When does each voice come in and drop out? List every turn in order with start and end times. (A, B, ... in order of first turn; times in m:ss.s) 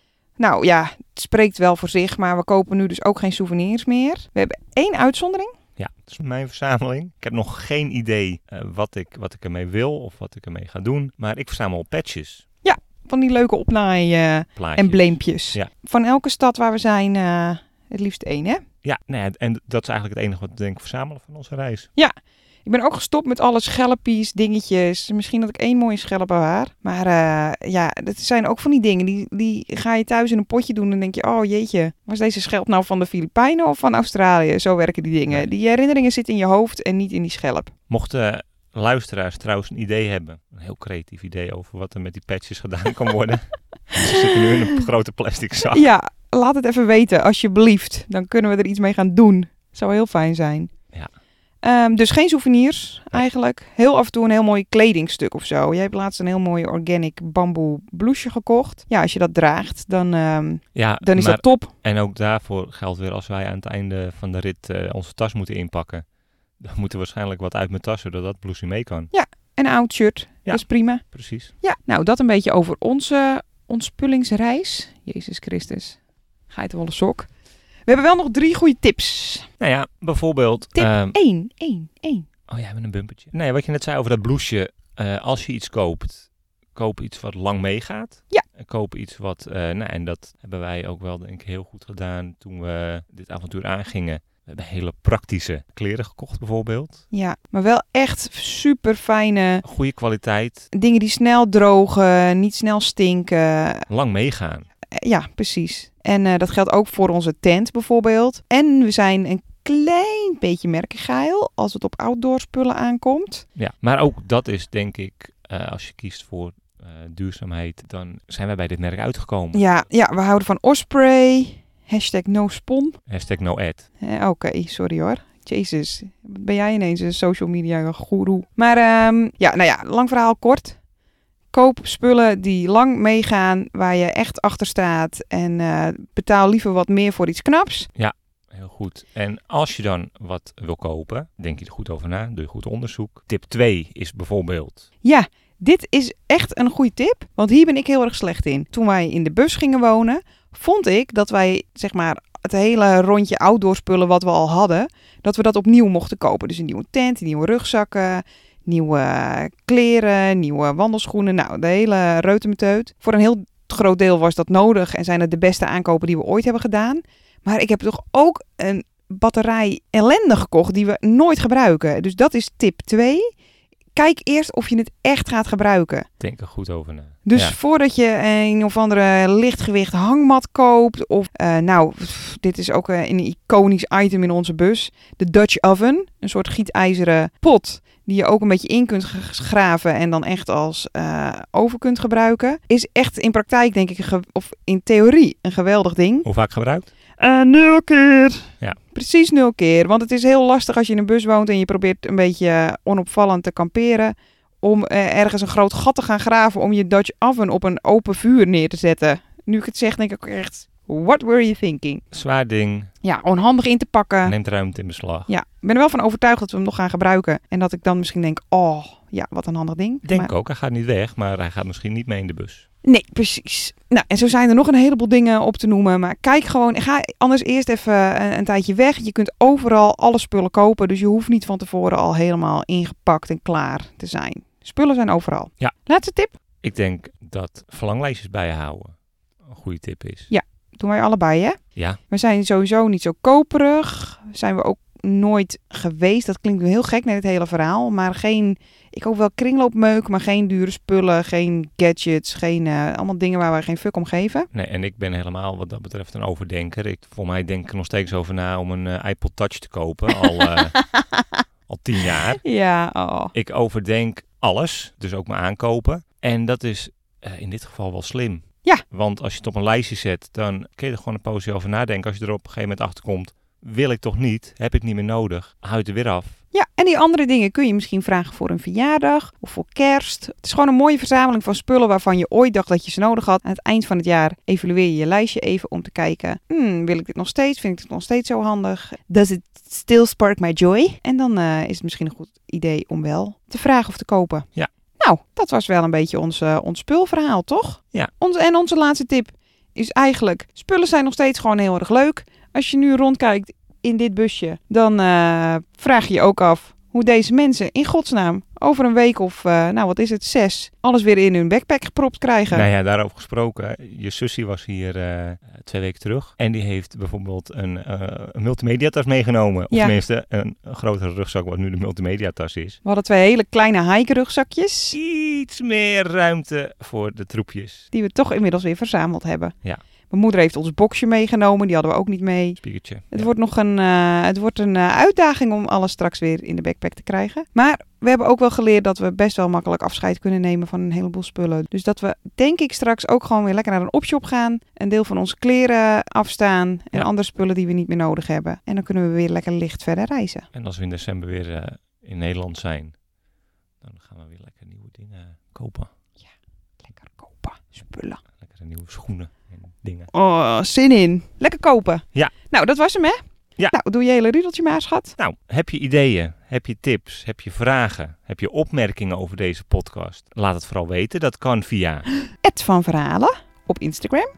0:00.4-0:05.6 A
0:05.8-0:12.4 B
0:12.6-0:18.6 A
0:14.6-0:15.7 B
0:18.8-0:21.9 B
0:22.6-0:37.7 A
0:37.9-0:45.9 B
0:43.9-0:44.6 A
0:45.7-0:50.7 A
0:51.6-1:01.7 A
1:00.7-1:06.0 B
1:06.6-1:09.1 B
1:09.1-1:11.0 A
1:10.4-1:11.5 B
1:11.6-1:16.0 A
1:16.5-1:17.3 A
1:17.9-1:19.5 A
1:19.6-1:21.2 B
1:20.7-1:22.3 A
1:22.5-1:37.0 B
1:37.1-1:39.6 A
1:39.6-1:40.7 B
1:40.7-1:43.9 A
1:43.9-1:44.6 B
1:44.9-1:53.4 A
1:53.6-1:59.6 B
1:59.5-2:03.0 A
2:03.1-2:03.9 B
2:04.0-2:10.8 A
2:11.5-2:17.9 A
2:17.9-2:24.9 B
2:25.0-2:53.3 A
2:53.9-2:56.1 A
2:56.2-2:57.5 B
2:57.2-3:16.3 A
3:16.2-3:16.9 B
3:17.2-3:32.0 A
3:32.1-3:32.9 B
3:33.0-3:34.3 A
3:34.2-3:35.3 B
3:35.3-3:40.3 A
3:40.0-3:42.6 B
3:42.8-3:56.3 A
3:56.6-3:58.9 B
3:59.4-4:00.3 B
4:00.3-4:01.6 A
4:02.1-4:14.5 A
4:14.5-4:20.8 B
4:20.2-4:21.4 A
4:21.7-4:22.4 B
4:22.4-4:23.3 A
4:23.3-4:36.4 B
4:36.5-4:54.5 A
4:55.0-5:12.6 A
5:12.5-5:22.8 B
5:22.8-5:25.0 A
5:24.9-5:27.9 B
5:27.9-5:29.5 A
5:30.1-5:32.6 A
5:32.6-5:33.3 B
5:33.1-5:50.5 A
5:50.5-5:52.9 B
5:53.8-5:55.9 B
5:56.8-5:58.2 A
5:58.4-6:00.1 B
6:00.1-6:03.2 A
6:03.7-6:05.2 A
6:05.2-6:12.1 B
6:12.4-6:14.3 A